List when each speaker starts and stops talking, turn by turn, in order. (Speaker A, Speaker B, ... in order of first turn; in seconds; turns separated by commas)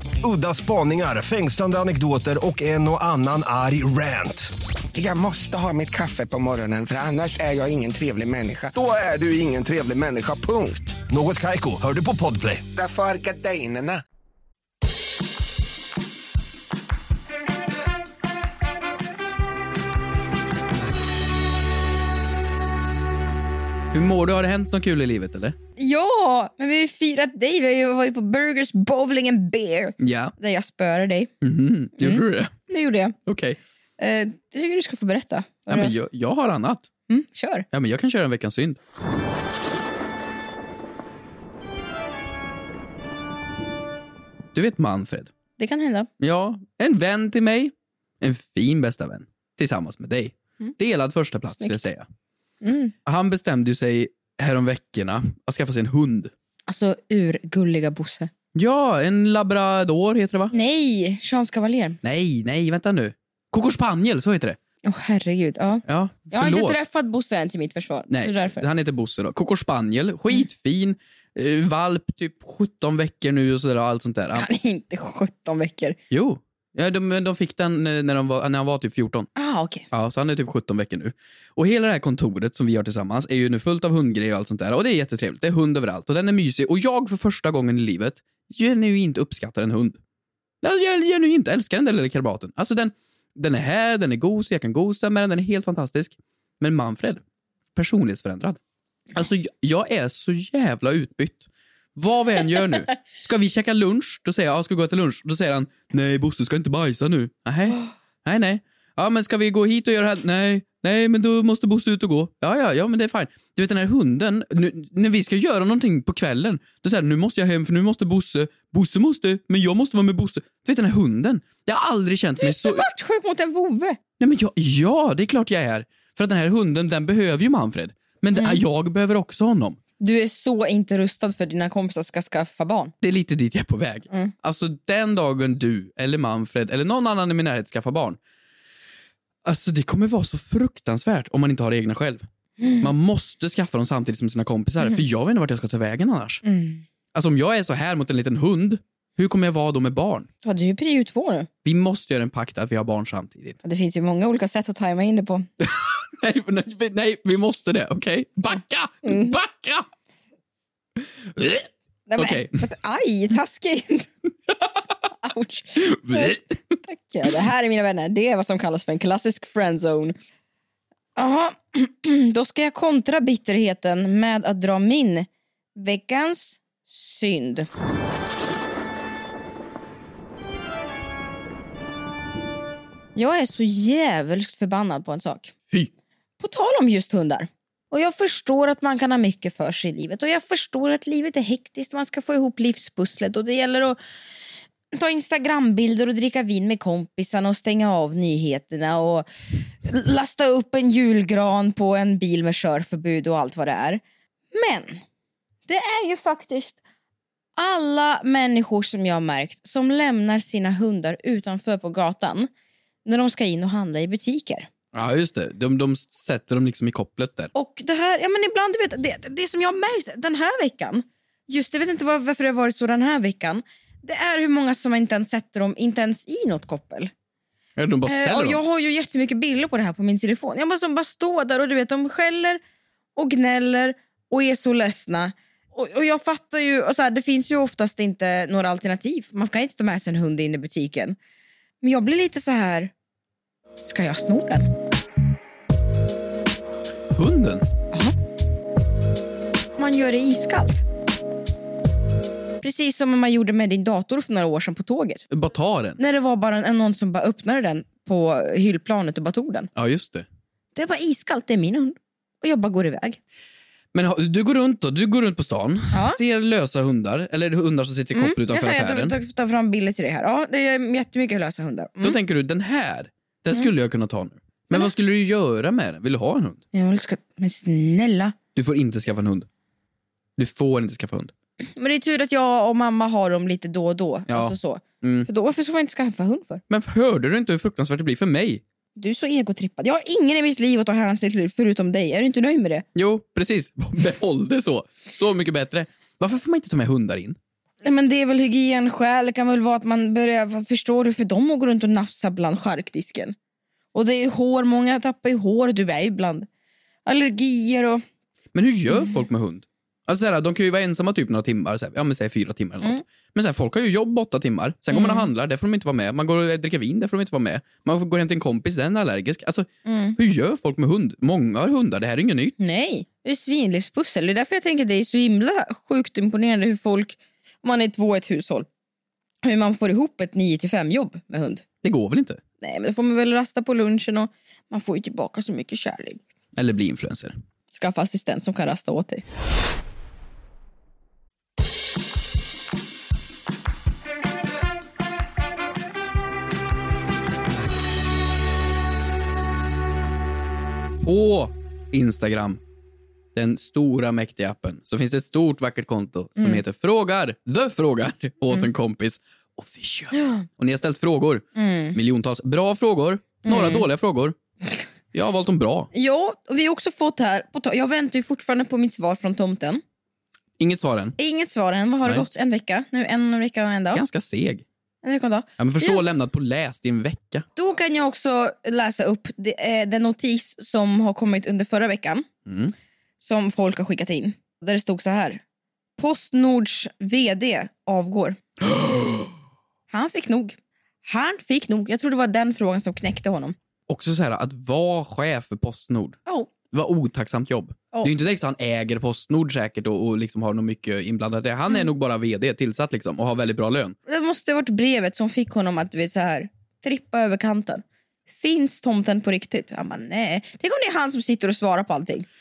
Speaker A: 0.2-4.5, Speaker B: 4.9-11.0, Speaker A: 11.1-12.6, Speaker B: 12.7-14.0, Speaker C: 23.9-25.6, Speaker D: 25.8-31.3, Speaker C: 30.0-30.3, Speaker C: 31.4-32.5, Speaker D: 32.0-33.1, Speaker C: 33.2-33.6, Speaker D: 34.0-35.9, Speaker C: 35.7-36.9, Speaker D: 37.1-37.6, Speaker C: 37.7-38.8, Speaker C: 44.5-45.3, Speaker D: 45.6-46.1, Speaker C: 46.2-52.0, Speaker D: 52.6-52.9, Speaker C: 53.0-56.3, Speaker D: 56.7-58.3, Speaker C: 58.5-60.5, Speaker D: 60.5-62.0, Speaker C: 62.0-64.6, Speaker D: 64.8-68.6, Speaker C: 65.9-66.8, Speaker C: 68.1-74.5, Speaker D: 74.3-76.0, Speaker C: 76.1-79.3, Speaker D: 79.4-79.8, Speaker C: 79.9-90.0, Speaker C: 90.6-97.2, Speaker C: 97.7-98.6, Speaker C: 99.1-122.8, Speaker D: 122.4-124.0, Speaker C: 124.2-129.8, Speaker D: 128.3-128.6, Speaker D: 130.0-132.9, Speaker C: 133.0-138.2, Speaker C: 139.4-142.2, Speaker D: 142.6-142.9, Speaker C: 142.8-146.4, Speaker D: 146.4-146.8, Speaker C: 147.1-150.3, Speaker D: 150.4-151.5, Speaker C: 151.6-153.6, Speaker D: 153.6-155.5, Speaker C: 155.6-159.8, Speaker D: 159.0-159.3, Speaker C: 161.0-162.5, Speaker D: 162.1-164.1, Speaker D: 165.2-170.1, Speaker C: 165.8-166.5, Speaker D: 171.2-177.7, Speaker D: 183.2-185.5, Speaker D: 186.4-194.0, Speaker D: 194.9-199.3, Speaker D: 199.8-204.0, Speaker D: 204.5-205.0, Speaker D: 205.7-206.8, Speaker D: 207.6-212.5, Speaker D: 213.0-214.7, Speaker C: 214.9-217.5, Speaker D: 217.5-227.1, Speaker C: 227.8-228.6, Speaker D: 228.1-232.6, Speaker D: 233.2-241.2, Speaker D: 241.8-242.9, Speaker D: 243.8-244.7, Speaker C: 247.1-247.6, Speaker D: 249.8-250.8, Speaker D: 252.6-255.2, Speaker C: 255.3-256.0, Speaker D: 256.0-259.7, Speaker C: 259.8-260.2, Speaker D: 260.7-263.2, Speaker C: 263.9-269.1, Speaker D: 265.9-266.2, Speaker D: 268.1-272.2, Speaker C: 272.0-276.6, Speaker D: 276.7-278.3, Speaker C: 278.5-279.5, Speaker C: 280.4-281.3, Speaker D: 281.8-286.6, Speaker C: 284.3-285.3, Speaker C: 286.7-288.6, Speaker D: 288.9-292.8, Speaker C: 292.9-297.4, Speaker D: 297.8-303.3, Speaker D: 303.9-306.5, Speaker D: 307.1-308.0, Speaker C: 308.5-322.6, Speaker D: 308.9-309.2, Speaker D: 314.9-315.3, Speaker D: 319.9-320.2, Speaker D: 322.6-328.7, Speaker D: 329.4-331.6, Speaker C: 331.8-332.4, Speaker D: 332.6-336.2, Speaker C: 336.6-337.3, Speaker D: 337.7-339.2, Speaker C: 351.0-352.6, Speaker C: 353.3-364.4, Speaker D: 360.1-360.4, Speaker D: 361.6-361.9, Speaker D: 363.4-363.9, Speaker C: 365.1-365.9, Speaker D: 365.9-369.8, Speaker C: 370.6-371.1, Speaker D: 371.2-374.0, Speaker C: 373.9-374.6, Speaker D: 375.0-376.0, Speaker C: 375.6-377.4, Speaker D: 377.6-382.2, Speaker C: 382.4-382.7, Speaker D: 383.2-385.4, Speaker D: 386.0-388.4, Speaker C: 388.6-389.3, Speaker D: 389.9-393.6, Speaker C: 393.9-396.2, Speaker C: 396.7-403.9, Speaker D: 404.1-412.2